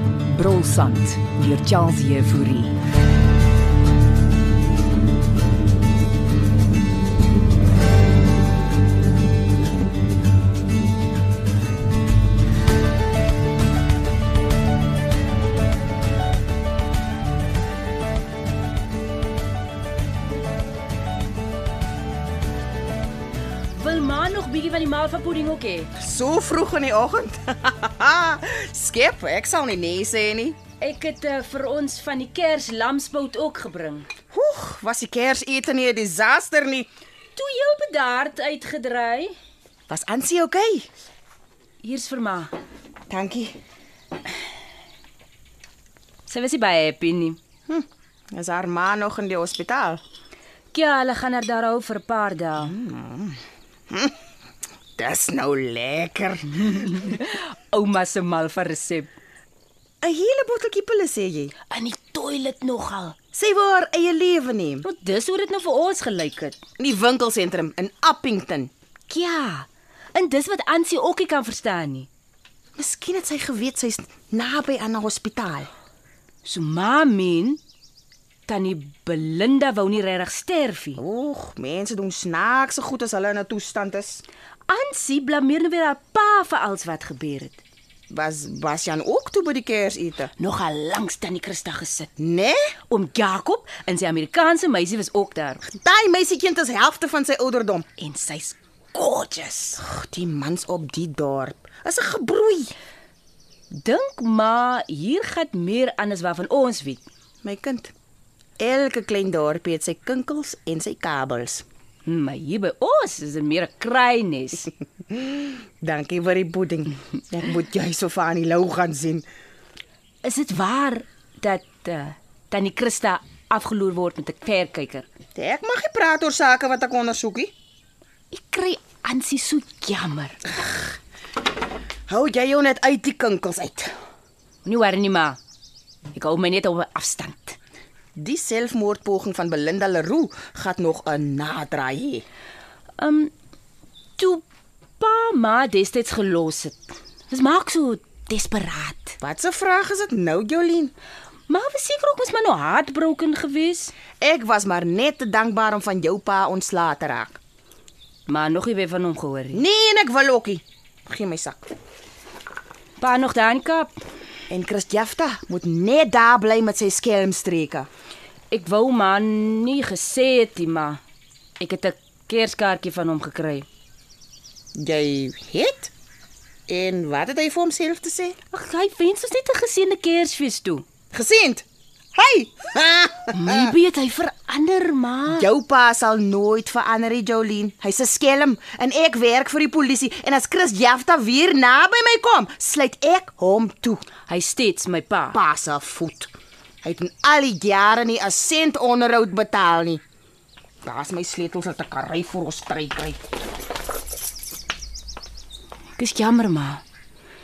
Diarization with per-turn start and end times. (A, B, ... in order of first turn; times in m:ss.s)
0:00.3-0:02.8 A
0:23.8-0:25.9 B
0:26.0-0:30.6 C
0:30.8-0:34.1 B
0:34.3-0:36.9 C
0:37.4-0:39.3 B
0:39.9-0:40.9 C
0:41.8-0:42.5 B
0:43.1-0:43.6 C
0:46.3-0:47.4 B
0:47.7-0:50.0 C
0:50.7-0:52.7 B
0:52.6-0:53.4 C
0:55.0-0:56.8 C
0:56.6-0:59.1 B
1:00.0-1:01.5 C
1:01.7-1:03.2 B
1:03.3-1:04.9 C
1:04.8-1:06.6 B
1:06.8-1:08.7 C
1:09.1-1:12.1 B
1:12.8-1:15.7 C
1:16.4-1:17.6 B
1:18.5-1:21.0 B
1:21.0-1:24.2 C
1:24.7-1:27.6 B
1:28.1-1:30.3 C
1:30.4-1:32.1 B
1:32.2-1:32.6 C
1:32.9-1:35.6 B
1:35.6-1:37.9 C
1:38.0-1:39.8 B
1:39.8-1:42.7 C
1:43.7-1:47.0 B
1:47.4-1:47.9 C
1:48.6-1:51.6 C
1:52.1-1:54.7 B
1:55.1-1:59.2 C
2:00.2-2:05.1 B
2:05.4-2:07.5 C
2:08.3-2:10.5 B
2:12.1-2:13.9 C
2:14.6-2:15.4 B
2:16.1-2:17.6 B
2:18.2-2:22.2 C
2:23.0-2:23.3 B
2:24.2-2:24.4 B
2:25.0-2:29.2 B
2:29.2-2:30.9 C
2:31.5-2:33.9 B
2:34.2-2:37.4 C
2:38.3-2:39.6 B
2:39.5-2:41.7 C
2:43.0-2:43.9 B
2:44.5-2:47.9 C
2:48.5-2:51.0 B
2:51.6-2:53.7 B
2:54.8-2:55.9 C
2:56.7-2:58.4 C
2:58.5-3:00.8 B
3:01.1-3:03.7 C
3:03.3-3:05.4 B
3:05.4-3:14.0 C
3:14.3-3:15.4 B
3:15.3-3:16.3 C
3:16.8-3:20.0 C
3:20.8-3:23.2 C
3:26.0-3:26.8 B